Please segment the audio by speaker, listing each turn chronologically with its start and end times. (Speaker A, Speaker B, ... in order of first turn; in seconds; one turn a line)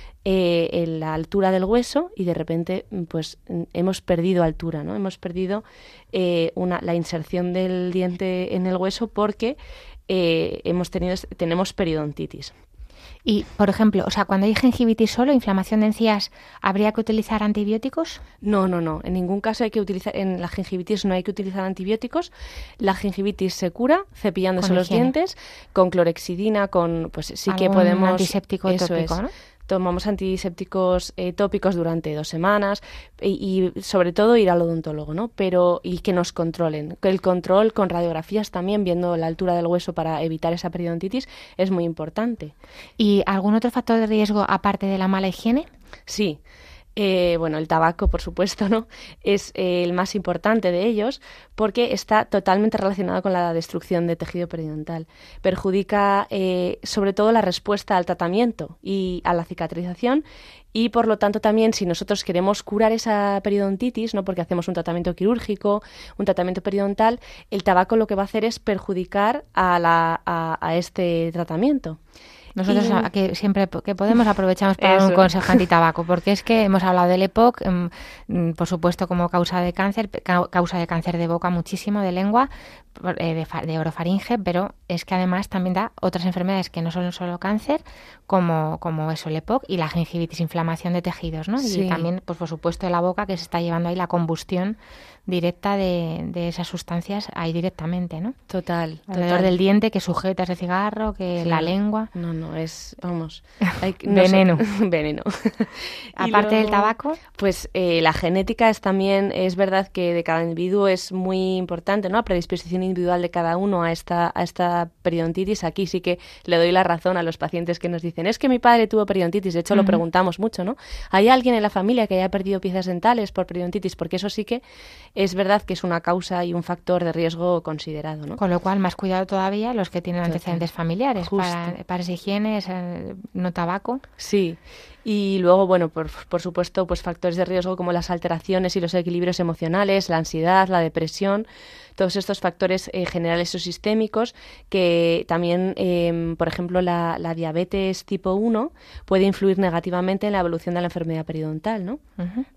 Speaker A: 0.2-9.6
Speaker A: 10.1-12.5
Speaker B: 13.2-18.2
Speaker A: 18.4-42.5
Speaker B: 24.6-25.1
Speaker B: 27.5-29.3
Speaker B: 43.0-45.7
Speaker A: 46.1-46.4
Speaker A: 47.0-72.0
Speaker B: 72.5-98.4
Speaker A: 72.7-73.1
Speaker A: 74.8-75.6
Speaker A: 91.6-92.1
Speaker A: 98.5-99.5
Speaker B: 99.1-102.1
Speaker A: 101.4-124.6
Speaker B: 104.0-104.6
Speaker B: 106.2-107.2
Speaker B: 119.7-120.0
Speaker A: 125.2-128.4
Speaker B: 128.4-134.0
Speaker A: 130.3-130.6
Speaker A: 131.2-131.7
Speaker A: 134.2-141.4
Speaker A: 142.0-152.0
Speaker B: 152.2-152.4